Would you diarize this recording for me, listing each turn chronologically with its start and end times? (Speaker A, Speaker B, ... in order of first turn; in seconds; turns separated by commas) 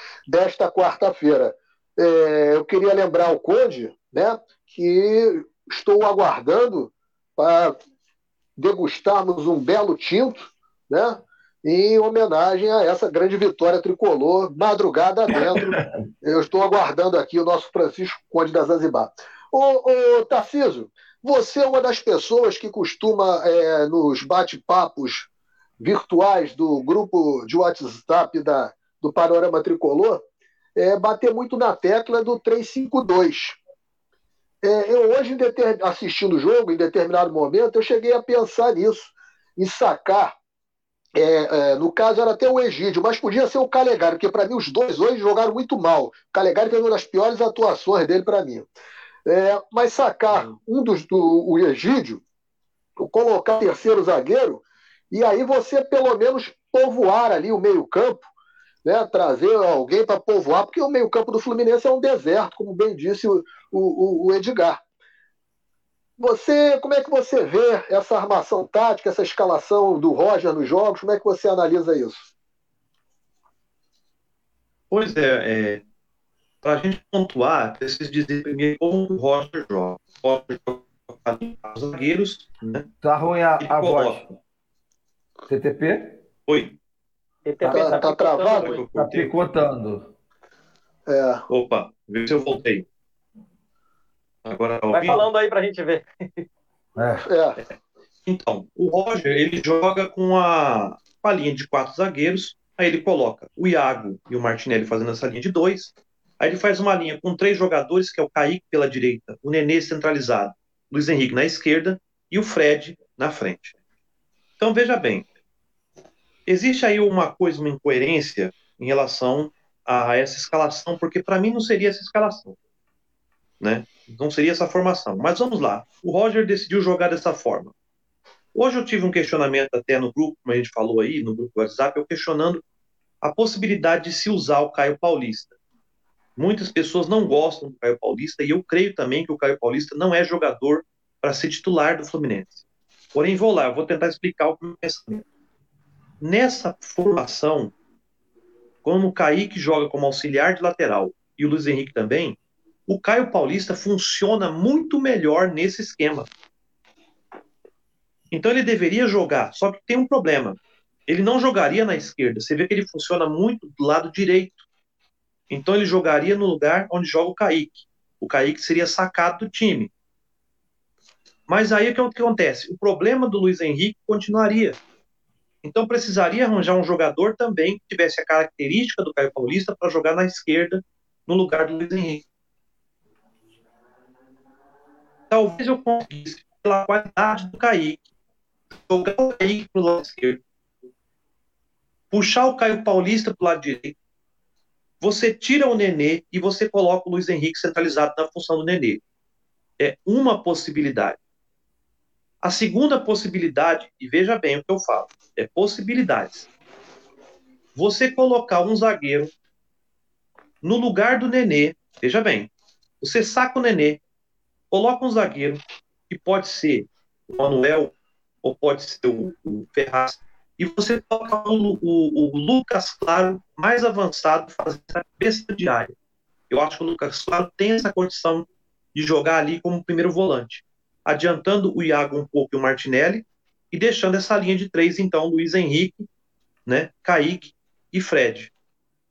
Speaker A: 0.3-7.7, Speaker A: 8.6-25.3, Speaker B: 15.6-15.8, Speaker A: 25.8-30.2, Speaker A: 30.8-33.6, Speaker A: 34.6-40.3, Speaker A: 41.2-48.7, Speaker A: 49.3-52.2, Speaker A: 53.0-58.2, Speaker A: 58.9-64.8, Speaker A: 66.2-72.3, Speaker C: 74.9-75.8, Speaker C: 76.6-82.9, Speaker B: 83.0-84.2, Speaker C: 83.6-84.3, Speaker B: 85.5-86.2, Speaker C: 86.5-86.8, Speaker D: 87.5-88.8, Speaker A: 87.6-88.8, Speaker B: 87.6-87.9, Speaker C: 88.5-89.3, Speaker B: 88.9-90.1, Speaker A: 91.1-91.4, Speaker C: 91.5-92.8, Speaker C: 94.5-95.3, Speaker D: 94.9-96.5, Speaker B: 97.0-97.2, Speaker A: 97.2-97.6, Speaker C: 98.2-113.8, Speaker C: 114.6-115.3, Speaker C: 116.5-122.5, Speaker C: 123.6-127.7, Speaker C: 128.6-132.6, Speaker C: 133.2-135.5, Speaker C: 136.4-142.6, Speaker C: 143.1-145.2, Speaker C: 146.2-147.7, Speaker C: 148.8-156.3, Speaker C: 158.3-164.6, Speaker C: 165.5-169.9, Speaker C: 171.5-174.8, Speaker C: 175.6-182.2, Speaker C: 185.3-188.0, Speaker C: 188.8-190.4, Speaker C: 192.1-193.9, Speaker C: 195.0-199.0, Speaker C: 199.8-201.2, Speaker C: 202.4-206.5, Speaker C: 207.8-209.3, Speaker C: 210.6-212.5, Speaker C: 213.0-214.0, Speaker C: 214.7-217.9, Speaker C: 218.4-225.9, Speaker C: 226.5-236.1, Speaker C: 236.7-238.5